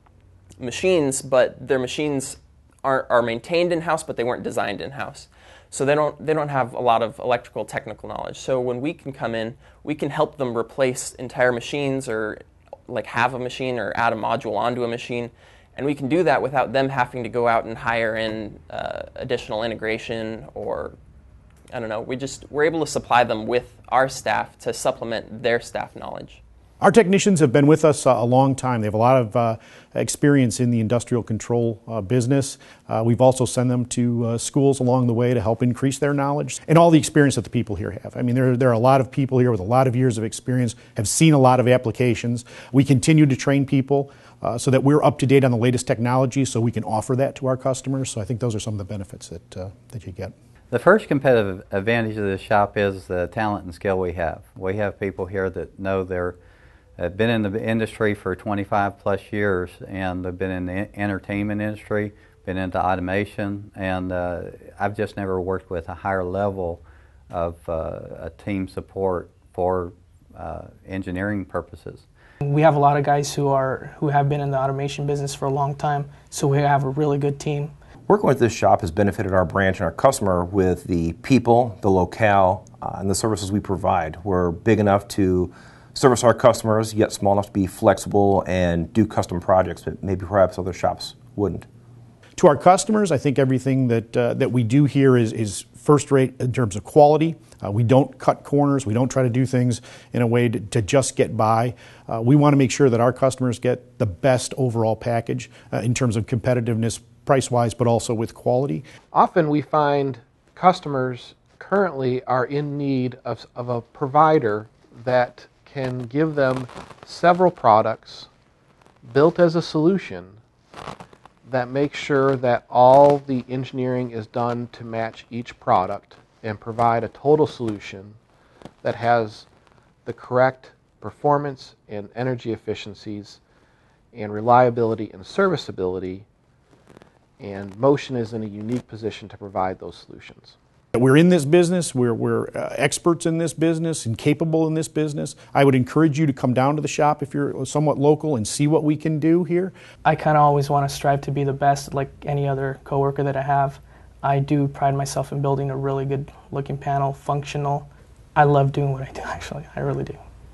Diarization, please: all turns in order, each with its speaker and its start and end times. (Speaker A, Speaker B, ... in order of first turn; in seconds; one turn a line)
Speaker A: 0.6-20.9
Speaker A: 21.7-26.4
Speaker B: 26.8-50.3
Speaker C: 50.7-56.4
Speaker C: 57.0-72.0
Speaker D: 72.4-77.7
Speaker E: 78.1-91.7
Speaker B: 92.4-108.8
Speaker F: 109.1-118.3
Speaker F: 119.1-120.3
Speaker F: 121.5-128.1
Speaker F: 128.8-129.4
Speaker F: 130.1-133.4
Speaker F: 134.1-136.2
Speaker F: 137.4-140.5
Speaker B: 140.9-149.7
Speaker D: 150.0-160.2